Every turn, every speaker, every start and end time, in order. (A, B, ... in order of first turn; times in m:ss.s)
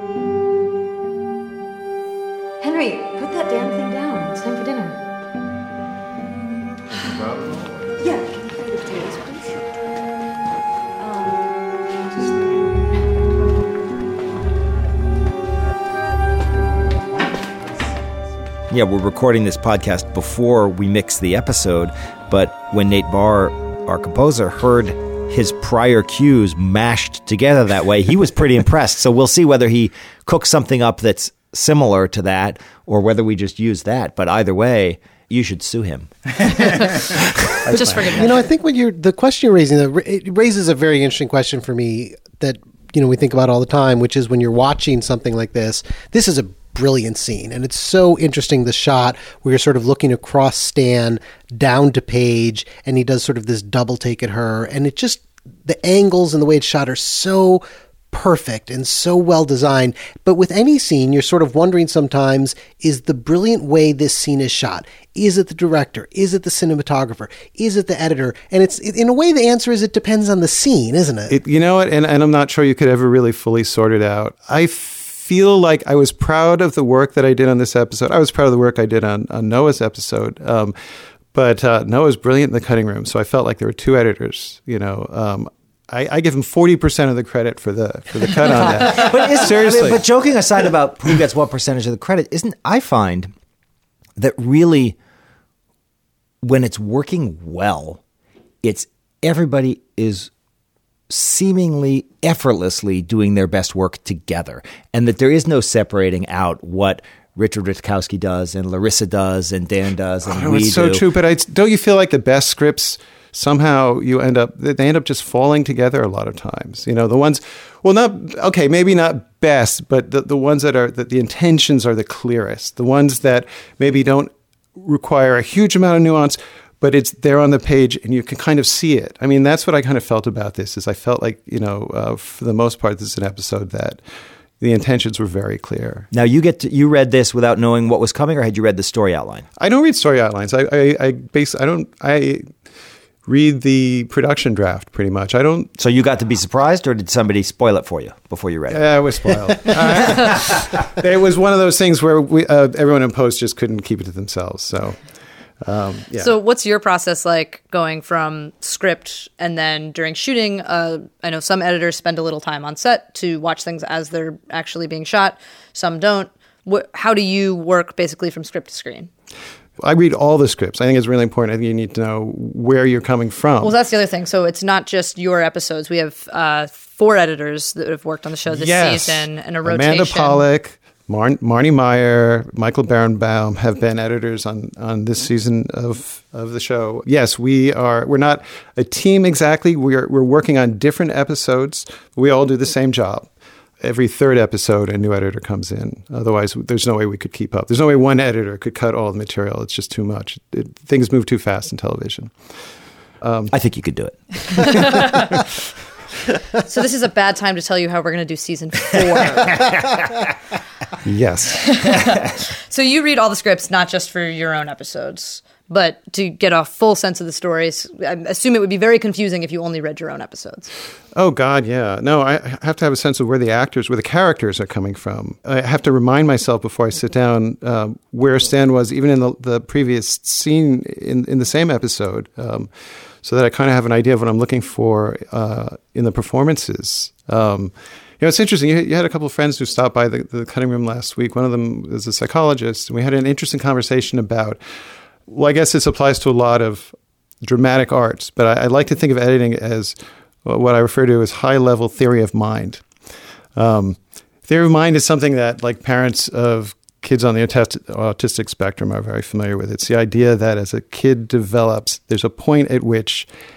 0:18.7-0:36.3 A
0:37.6-0:38.1 B
0:37.7-0:38.4 C
0:38.1-1:11.4 D
1:11.3-1:20.7 B
1:21.3-1:30.0 B
1:28.4-1:33.3 A
1:34.2-1:35.0 A
1:36.4-1:38.0 A
1:38.6-1:40.3 A
1:41.1-1:51.0 A
1:50.2-2:14.0 B
2:14.6-2:16.1 B
2:16.1-2:19.4 A
2:19.6-2:22.5 B
2:23.2-2:25.7 B
2:25.8-2:30.6 A
2:28.7-2:35.0 B
2:35.6-2:36.3 B
2:36.2-2:49.1 C
2:49.8-2:53.7 B
2:53.6-3:00.4 C
2:58.5-3:13.3 B
3:13.8-3:22.3 B
3:23.2-3:23.5 B
3:23.5-3:24.9 A
3:24.6-3:25.3 C
3:26.7-3:29.6 C
3:31.0-3:32.0 B
3:31.6-3:40.7 C
3:41.1-3:52.7 B
3:53.2-4:04.6 B
4:05.3-4:12.8 B
4:13.6-4:23.3 B